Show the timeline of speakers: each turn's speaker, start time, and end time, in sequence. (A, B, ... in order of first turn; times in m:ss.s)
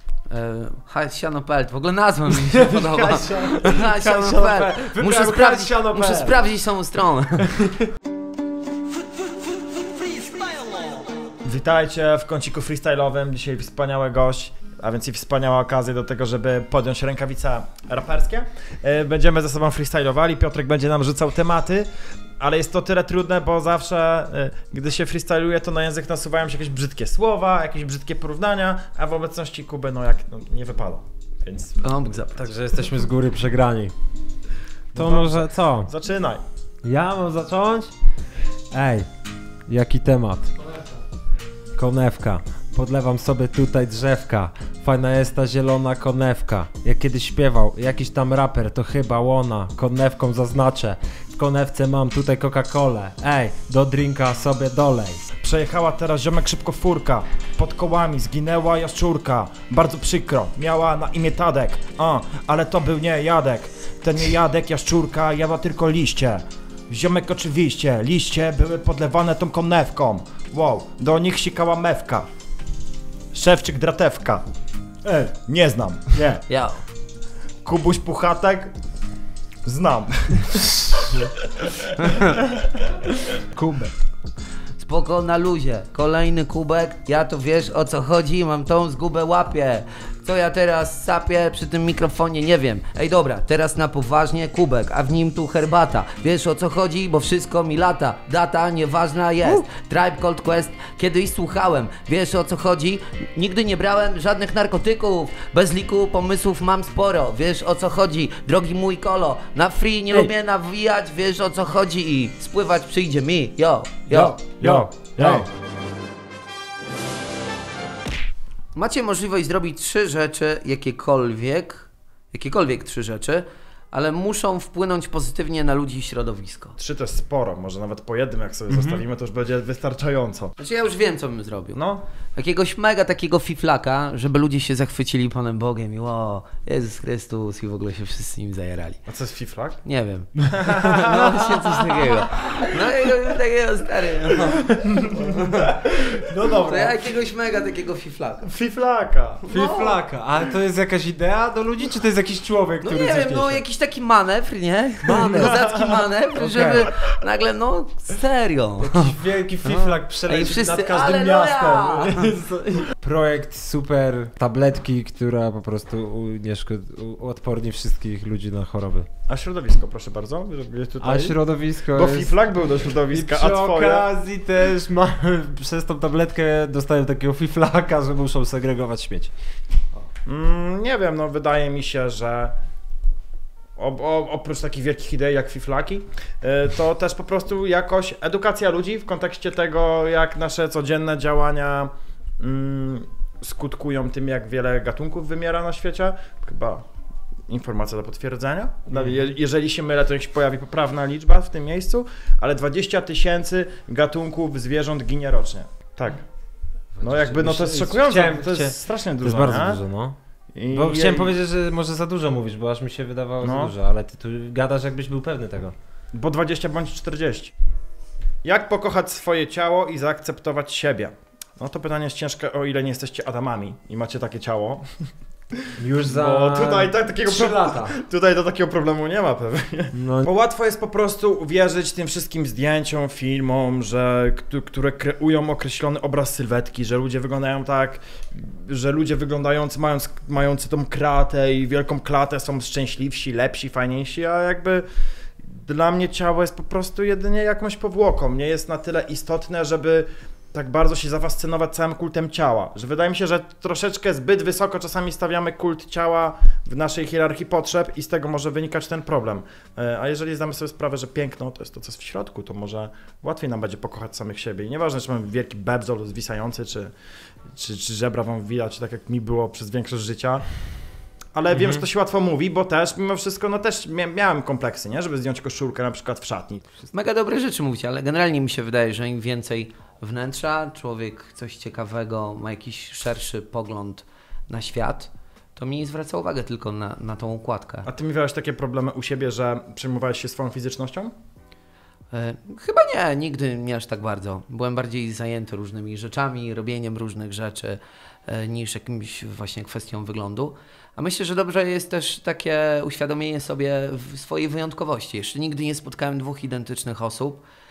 0:00.3-0:07.5 A
0:02.3-0:06.4 B
0:07.4-0:07.9 B
0:11.4-0:21.9 C
0:22.4-0:32.2 C
0:31.8-0:32.5 A
0:32.4-0:33.9 B
0:34.9-0:35.9 B
0:34.9-0:36.4 C
0:36.8-0:37.9 B
0:38.7-0:39.1 B
0:39.7-0:40.5 B
0:41.8-0:55.2 B
0:55.4-1:12.3 C
1:13.3-1:14.4 C
1:15.0-1:15.3 B
1:15.4-1:16.4 C
1:16.5-1:16.8 A
1:17.6-1:18.7 C
1:19.6-1:21.2 C
1:23.5-1:23.9 B
1:24.8-1:54.6 A
1:54.1-1:55.4 B
1:54.1-1:55.5 C
1:58.7-2:06.7 A
2:06.8-2:10.5 C
2:08.7-2:09.0 B
2:10.6-2:11.8 A
2:11.7-2:12.0 C
2:12.4-2:19.0 A
2:19.1-2:19.8 C
2:19.8-2:25.8 A
2:20.5-2:21.3 C
2:26.1-2:26.9 B
2:26.6-2:28.5 A
2:28.4-2:29.4 C
2:29.4-2:30.0 A
2:29.5-2:33.6 B
2:32.8-2:42.5 A
2:35.0-2:35.6 B
2:35.2-2:35.9 C
2:36.4-2:36.8 B
2:38.8-2:49.1 B
2:49.3-2:54.1 C
2:51.0-2:52.3 B
2:53.0-2:59.3 B
3:00.2-3:02.5 C
3:03.8-3:16.8 C
3:17.5-3:26.2 C
3:27.0-3:30.1 B
3:27.0-3:29.8 C
3:30.5-3:31.3 C
3:30.7-3:35.7 B
3:33.4-3:33.7 C
3:36.1-3:37.5 C
3:38.4-3:44.8 C
3:45.5-4:04.8 C
3:45.8-3:47.9 B
3:49.9-3:50.3 B
4:05.5-4:26.9 C
4:27.5-4:30.4 C
4:31.3-4:36.6 C
4:31.5-4:31.8 B
4:36.9-4:47.9 A
4:47.8-4:51.1 C
4:52.1-5:07.4 A